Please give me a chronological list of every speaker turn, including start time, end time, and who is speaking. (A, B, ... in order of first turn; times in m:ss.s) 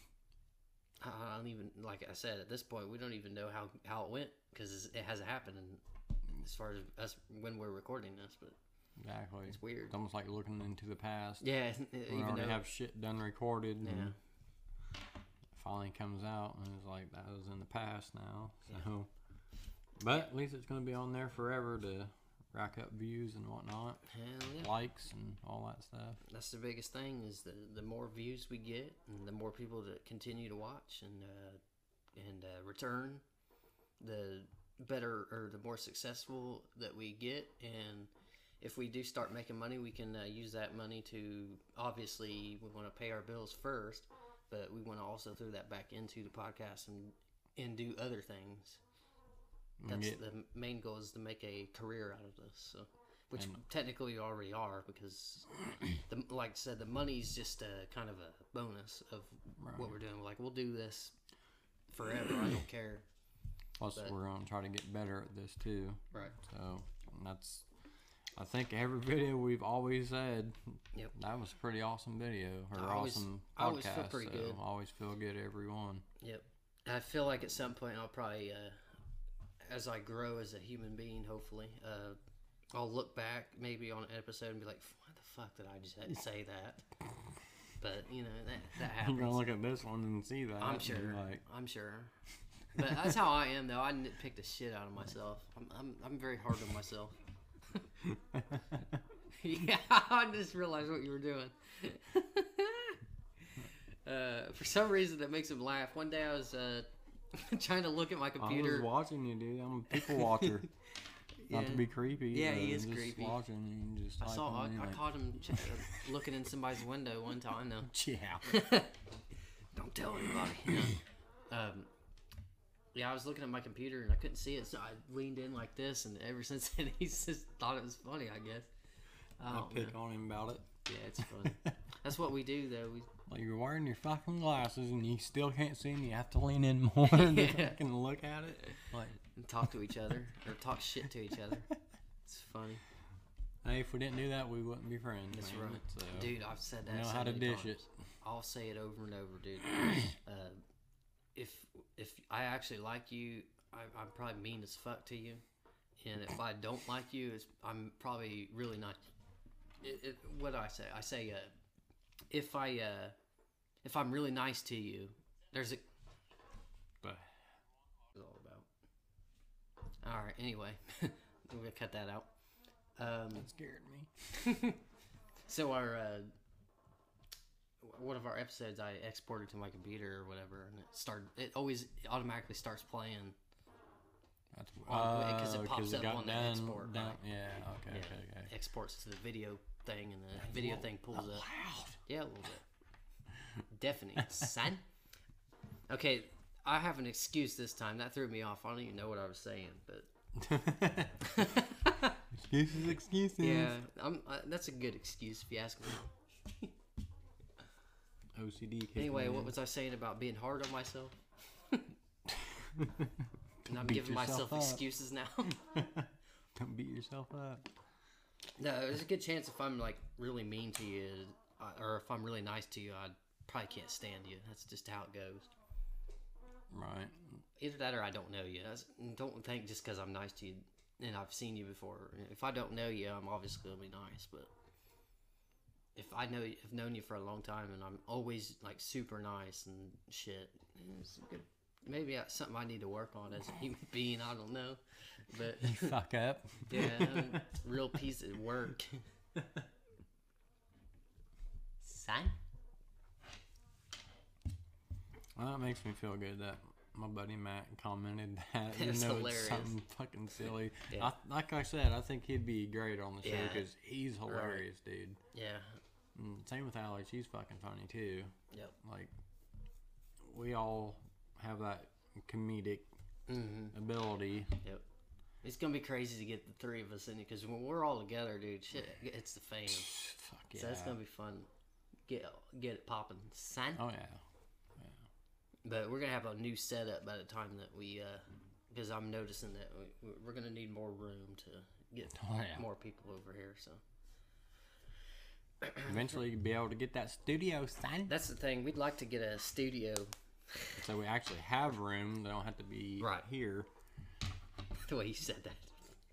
0:01.0-0:08.6 A
0:09.0-0:11.5 B
0:09.5-0:09.9 A
0:11.4-0:12.6 A
0:12.1-0:14.1 B
0:13.8-0:14.2 A
0:15.5-0:19.1 B
0:20.0-0:24.0 B
0:24.1-0:24.7 A
0:24.6-0:26.2 B
0:26.2-0:31.6 A
0:32.1-0:33.2 A
0:34.0-0:48.8 A
0:49.8-0:50.2 B
0:49.9-1:01.2 A
0:53.4-0:53.6 B
0:59.6-1:00.0 B
1:01.9-1:03.1 A
1:03.8-1:07.7 B
1:08.4-1:16.1 B
1:12.7-1:14.6 A
1:16.2-1:18.8 A
1:19.6-1:22.2 A
1:22.7-1:26.9 A
1:27.8-1:29.4 A
1:28.8-1:31.4 B
1:30.6-1:32.1 A
1:32.7-1:37.2 A
1:32.8-1:33.2 B
1:38.0-1:39.0 B
1:39.3-1:43.0 A
1:43.5-1:48.9 A
1:48.4-1:50.7 B
1:49.9-1:50.6 A
1:51.4-1:53.4 A
1:51.5-1:56.1 B
1:54.2-1:59.0 A
1:57.8-1:58.5 B
1:59.7-2:01.9 A
2:00.5-2:01.0 B
2:02.9-2:08.7 A
2:09.4-2:10.0 A
2:09.5-2:10.7 B
2:10.9-2:13.1 A
2:11.2-2:11.7 B
2:13.3-2:19.2 B
2:17.0-2:17.8 A
2:18.6-2:21.7 A
2:22.2-2:22.8 A
2:23.6-2:26.4 B
2:25.3-2:30.6 A
2:26.9-2:27.9 B
2:31.4-2:35.4 A
2:36.0-2:39.0 A
2:39.8-2:41.5 A
2:42.3-2:43.1 A
2:43.8-2:45.8 A
2:47.0-2:47.4 B
2:48.1-2:48.7 A
2:50.0-2:52.3 A
2:53.0-2:53.5 A
2:53.3-2:54.1 B
2:54.3-2:54.8 A
2:55.5-2:56.3 A
2:57.8-3:03.4 A
3:04.5-3:08.5 B
3:04.8-3:07.2 A
3:07.9-3:11.5 A
3:10.5-3:12.0 B
3:12.0-3:12.6 A
3:13.4-3:13.6 B
3:13.7-3:14.8 A
3:14.2-3:14.5 B
3:15.9-3:20.1 A
3:20.4-3:21.4 B
3:21.2-3:22.2 A
3:22.3-3:23.8 B
3:23.4-3:26.7 A
3:28.3-3:29.6 B
3:29.0-3:31.2 A
3:32.3-3:34.8 B
3:33.6-3:35.6 A
3:35.5-3:37.7 B
3:38.6-3:45.5 A
3:46.7-3:47.4 B
3:47.6-3:54.5 A
3:56.0-4:06.0 A
4:05.5-4:07.5 B
4:06.7-4:09.0 A
4:11.8-4:12.4 A
4:15.4-4:25.2 B
4:18.7-4:19.8 A
4:23.2-4:23.7 A
4:24.3-4:24.6 A
4:25.3-4:25.8 A
4:26.2-4:29.1 B
4:30.2-4:32.9 B
4:33.3-4:33.8 A
4:33.7-4:34.6 B
4:35.4-4:39.9 A
4:39.7-4:41.0 B
4:40.5-4:41.5 A
4:42.1-4:43.8 A
4:43.8-4:44.2 B
4:44.8-4:45.1 B
4:45.6-4:53.8 A
4:52.1-4:52.6 B
4:55.6-4:56.0 A
4:55.8-4:58.1 B
4:58.1-5:00.8 A
5:00.8-5:03.7 B
5:03.0-5:03.3 A
5:04.8-5:06.0 A